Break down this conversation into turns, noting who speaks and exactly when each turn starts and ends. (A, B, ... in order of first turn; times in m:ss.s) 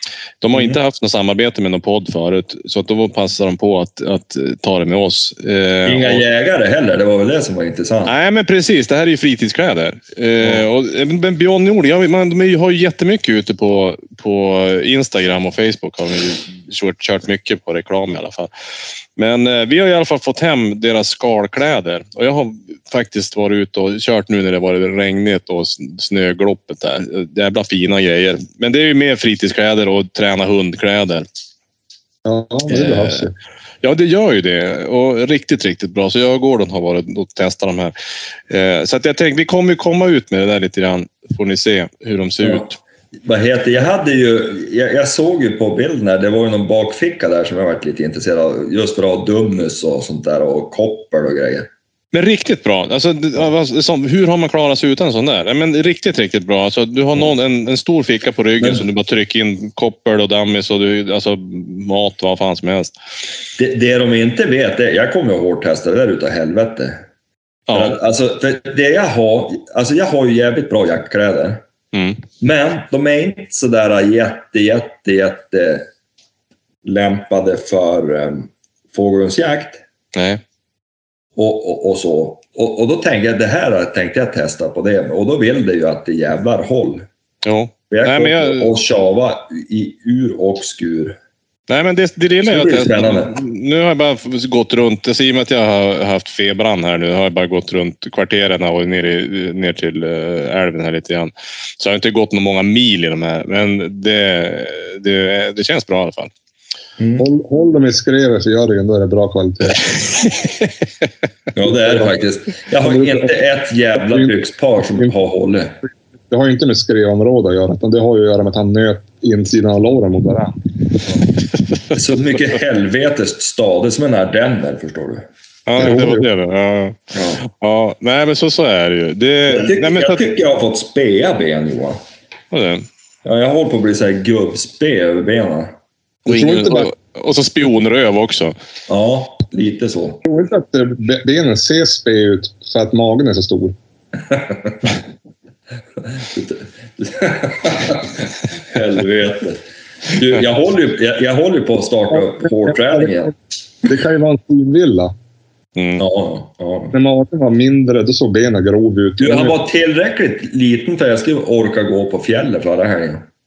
0:00.4-0:06.2 A
0:00.5-0:00.8 B
0:05.8-0:08.1 B
0:08.0-0:18.5 A
0:10.4-0:10.6 B
0:19.2-0:31.2 A
0:32.2-0:33.3 C
0:32.7-0:33.3 A
0:33.8-0:37.9 A
0:38.5-0:42.8 A
0:42.4-0:42.6 B
0:43.2-0:51.7 B
0:52.1-1:02.9 A
0:58.6-0:58.8 B
1:03.6-1:07.0 B
1:07.7-1:08.0 A
1:07.7-1:11.6 B
1:11.9-1:12.2 A
1:12.4-1:15.9 B
1:16.8-1:19.8 B
1:20.1-1:20.4 A
1:21.4-1:27.0 B
1:27.4-1:28.7 A
1:27.9-1:31.2 B
1:31.7-1:46.3 A
1:32.4-1:33.4 B
1:47.0-1:47.2 B
1:47.2-1:49.9 C
1:51.5-1:55.7 B
1:51.6-1:52.1 C
1:52.8-1:53.3 C
1:53.9-1:55.2 C
1:56.3-2:00.6 C
2:01.9-2:05.3 B
2:05.7-2:10.2 A
2:05.8-2:06.3 C
2:07.1-2:07.4 B
2:09.5-2:12.0 B
2:12.5-2:12.8 A
2:13.2-2:15.7 B
2:16.2-2:16.9 C
2:16.3-2:18.5 A
2:18.9-2:20.2 B
2:20.2-2:23.7 C
2:24.3-2:24.9 B
2:26.1-2:33.3 B
2:32.1-2:33.3 C
2:33.8-2:35.1 C
2:35.8-2:36.0 A
2:36.0-2:36.9 B
2:36.9-2:39.6 C
2:39.2-2:43.3 B